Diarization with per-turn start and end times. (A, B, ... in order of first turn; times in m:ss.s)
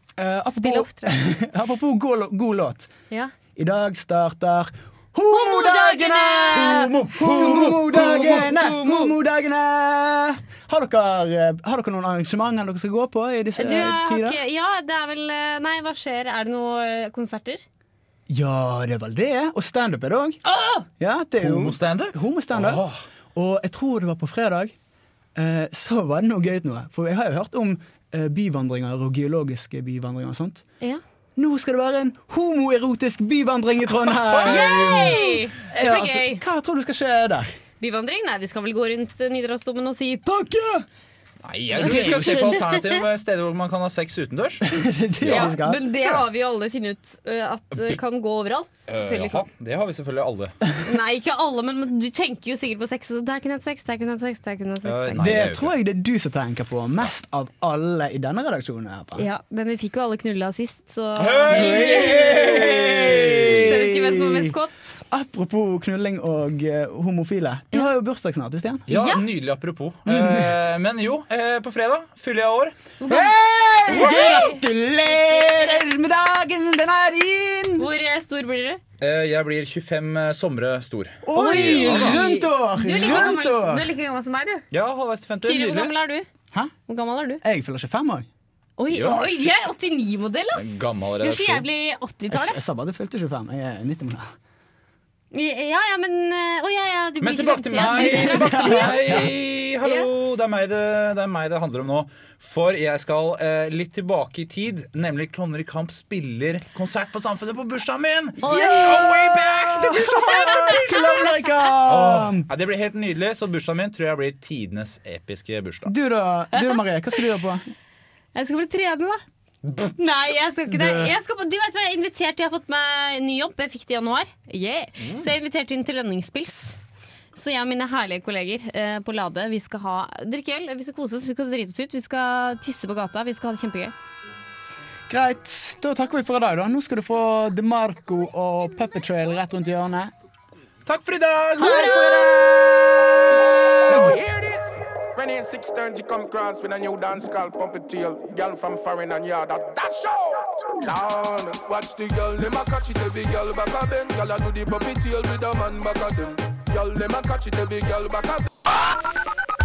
0:00.2-0:02.9 A
0:00.5-0:01.2 B
0:03.6-0:14.4 A
0:05.3-0:09.2 B
0:13.6-0:17.6 B
0:18.3-0:20.4 A
0:20.4-0:20.9 B
0:21.0-0:22.8 A
0:21.4-0:22.9 C
0:23.4-0:24.7 A
0:25.4-0:30.6 A
0:31.4-0:37.6 A
0:34.4-0:36.4 B
0:37.8-0:40.2 B
0:40.2-0:40.9 A
0:41.4-0:44.7 C
0:41.7-0:42.7 A
0:41.8-0:42.9 B
0:44.6-0:46.2 A
0:45.2-0:45.6 C
0:45.3-0:49.4 B
0:48.9-0:50.6 C
0:50.9-0:55.4 B
0:54.8-0:55.7 C
0:55.2-0:59.3 A
0:59.2-1:02.9 B
1:01.2-1:03.7 C
1:01.5-1:04.6 A
1:03.5-1:05.0 B
1:05.1-1:08.9 A
1:08.9-1:12.8 C
1:08.9-1:09.2 B
1:10.1-1:10.6 A
1:13.0-1:14.6 B
1:13.0-1:17.9 A
1:17.8-1:18.8 B
1:19.0-1:22.2 C
1:21.3-1:23.9 A
1:21.3-1:24.7 B
1:24.7-1:25.9 C
1:25.4-1:26.3 B
1:26.9-1:27.4 B
1:27.4-1:28.3 A
1:28.8-1:32.6 B
1:28.9-1:29.7 C
1:30.5-1:31.7 C
1:32.3-1:34.3 A
1:35.3-1:39.3 B
1:37.2-1:50.9 C
1:37.8-1:39.3 A
1:39.8-1:40.1 B
1:48.4-1:52.5 A
1:48.4-1:49.1 B
1:50.0-1:51.7 B
1:51.9-1:55.9 C
1:55.9-1:57.6 A
1:58.4-1:59.2 B
2:00.0-2:06.8 B
2:00.7-2:01.1 A
2:07.4-2:13.9 B
2:15.1-2:20.1 A
2:20.9-2:22.6 C
2:21.6-2:22.5 B
2:21.6-2:22.7 A
2:23.9-2:24.2 A
2:23.9-2:38.5 D